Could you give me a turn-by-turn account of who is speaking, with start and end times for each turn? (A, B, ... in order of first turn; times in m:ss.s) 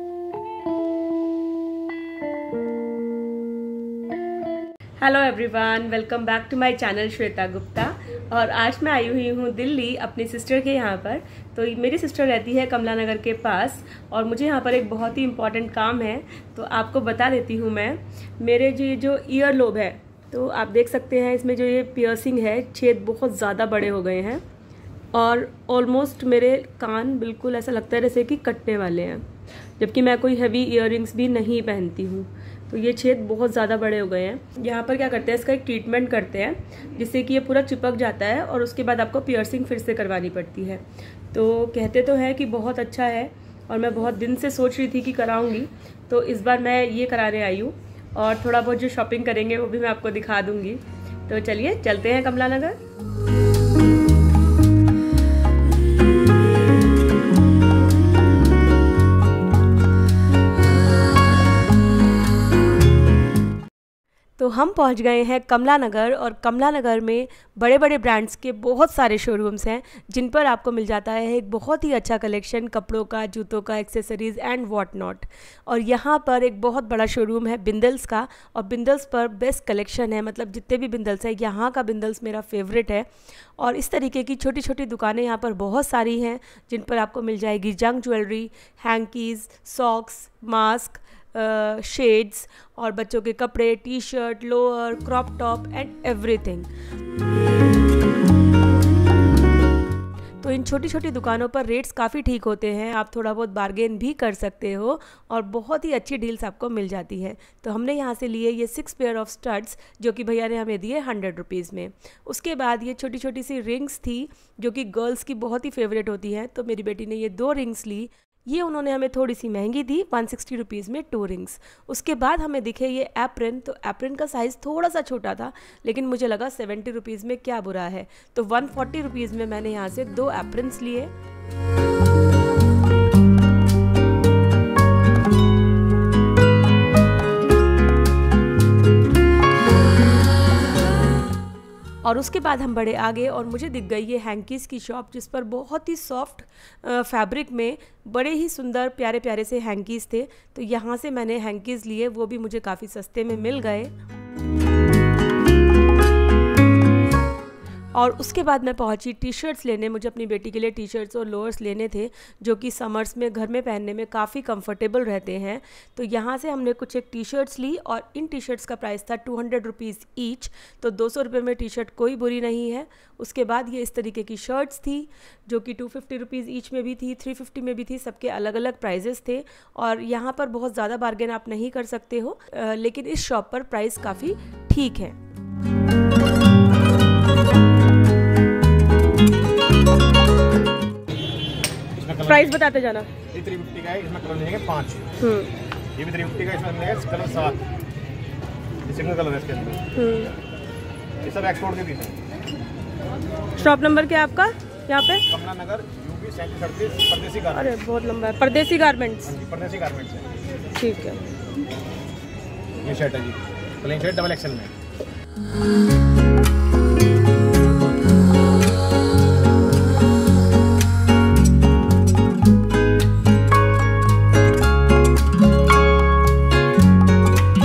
0:05.0-0:24.4 A
0:25.1-0:29.2 A
0:29.8-0:52.8 A
1:04.4-1:23.1 A
1:23.6-1:36.7 A
1:40.4-2:11.1 A
2:22.0-2:33.9 A
2:37.9-3:05.2 A
3:12.0-3:12.6 B
3:12.2-3:13.1 A
3:13.3-3:15.0 B
3:15.2-3:15.5 A
3:16.0-3:17.6 B
3:18.8-3:19.8 B
3:19.9-3:20.3 A
3:21.2-3:22.2 B
3:23.6-3:25.2 A
3:25.3-3:27.7 B
3:27.5-3:29.3 A
3:29.2-3:30.3 B
3:30.7-3:31.2 A
3:32.8-3:34.7 B